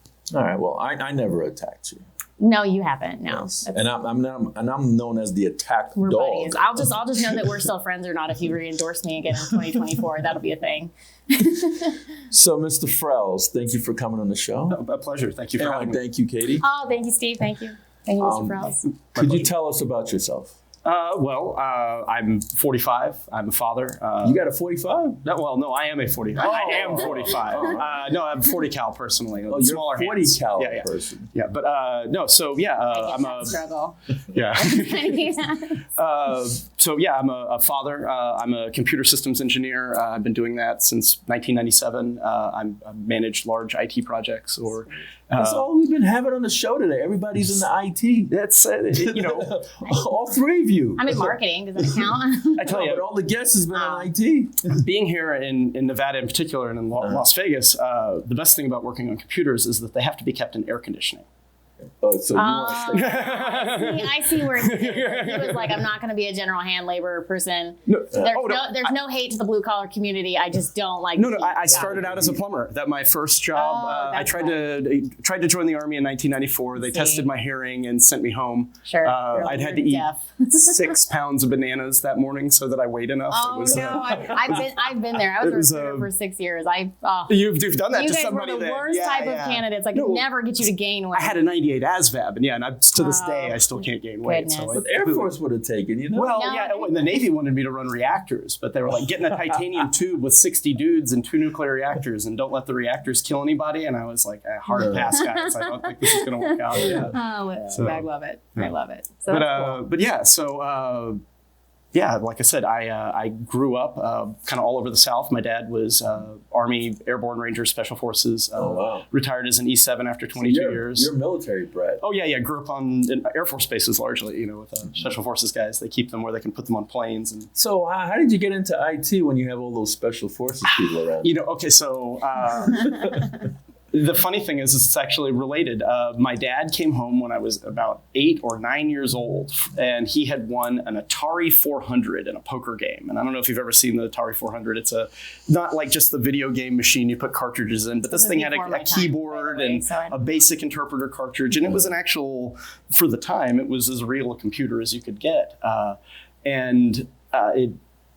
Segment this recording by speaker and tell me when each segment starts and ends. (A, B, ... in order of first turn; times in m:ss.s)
0:00.3-0:02.0 A
0:02.4-0:03.8 B
0:03.3-0:06.8 A
0:06.0-0:12.0 B
0:12.3-0:14.8 A
0:14.7-0:16.0 C
0:15.6-0:16.6 A
0:16.6-0:18.9 B
0:18.2-0:18.6 A
0:19.1-0:19.5 C
0:19.1-0:20.5 A
0:20.8-0:24.4 C
0:24.2-0:25.2 A
0:25.2-0:33.6 C
0:26.4-0:28.0 A
0:26.6-0:27.0 B
0:29.5-0:31.3 A
0:32.9-0:34.0 B
0:34.3-0:35.2 C
0:34.5-0:35.8 B
0:36.0-0:45.7 C
0:45.3-0:48.3 A
0:48.3-0:49.5 C
0:48.9-0:51.3 A
0:51.0-0:52.8 B
0:52.6-0:53.0 C
0:52.6-0:54.7 A
0:53.7-0:54.1 B
0:54.7-1:01.2 C
1:02.0-1:03.4 A
1:02.3-1:12.2 B
1:02.9-1:05.8 C
1:07.9-1:08.9 C
1:11.2-1:26.1 C
1:11.7-1:12.4 A
1:13.5-1:14.6 B
1:16.9-1:17.3 B
1:18.8-1:20.9 B
1:23.3-1:27.4 B
1:23.7-1:24.2 A
1:27.3-1:30.3 C
1:27.9-1:31.4 B
1:31.1-1:35.3 C
1:32.9-1:33.6 B
1:34.2-1:34.8 B
1:34.7-1:36.5 A
1:36.1-1:47.2 C
1:36.3-1:37.1 B
1:44.7-1:49.8 B
1:44.8-1:45.1 A
1:47.7-1:48.0 C
1:49.3-1:51.2 C
1:51.9-2:01.1 C
1:58.6-1:59.0 A
2:00.4-2:02.0 A
2:02.0-2:07.5 C
2:07.5-2:11.3 A
2:10.7-2:37.8 C
2:28.1-2:30.5 B